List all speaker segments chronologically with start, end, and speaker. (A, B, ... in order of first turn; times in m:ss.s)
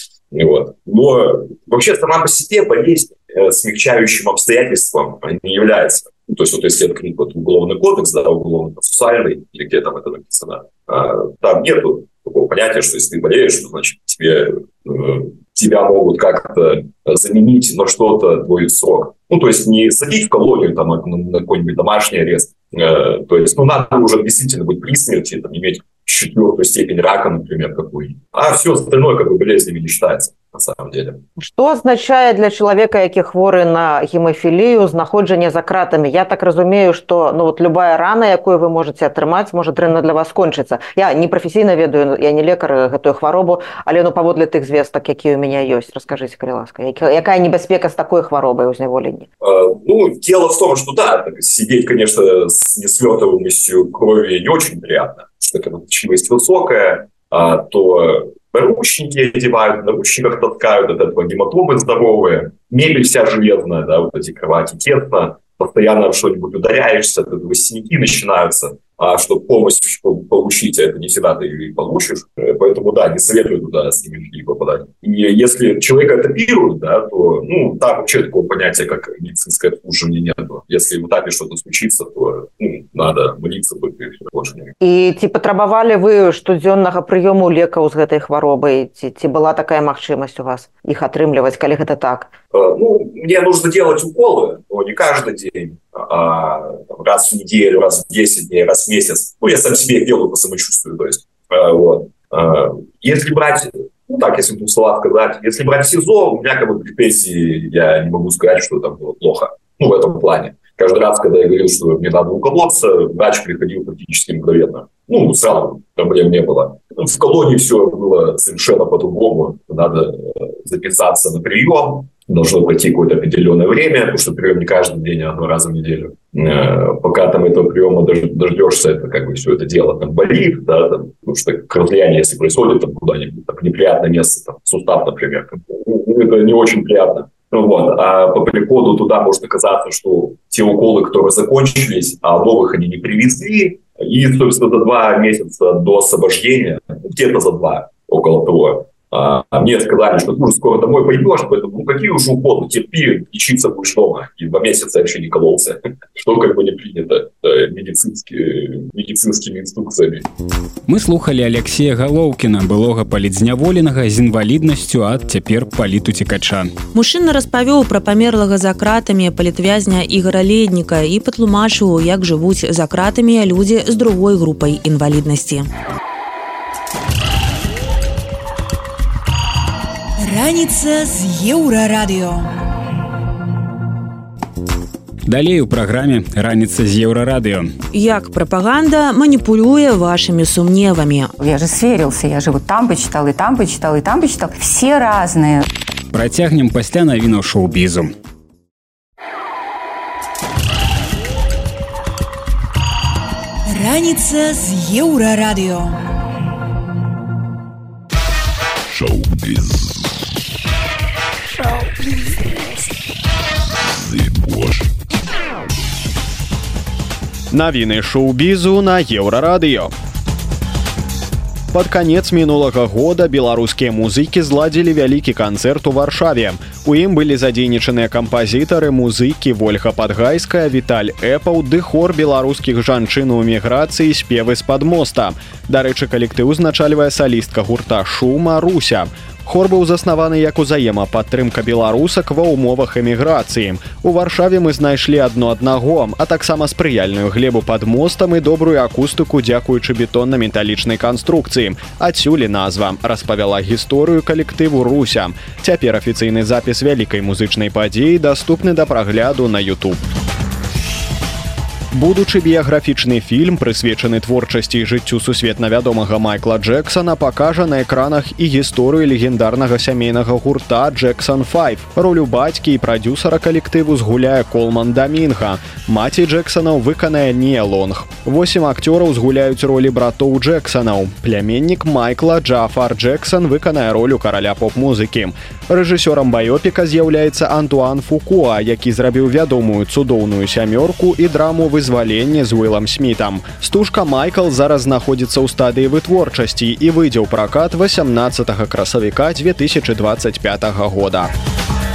0:00.3-0:31.2 A
0:31.4-0:49.2 B
0:49.4-1:24.7 A
1:24.8-1:32.3 B
1:32.5-2:40.3 A
2:40.9-2:46.7 C
2:46.9-2:55.7 D
3:00.2-3:02.6 E
3:05.3-3:07.7 C
3:07.9-3:11.3 D
3:11.4-3:15.6 F
3:16.1-3:18.1 C
3:23.7-3:26.0 E
3:28.9-3:30.0 G
3:33.9-3:34.9 G
3:37.5-3:39.9 H
3:41.7-4:20.0 H
4:21.9-5:01.3 H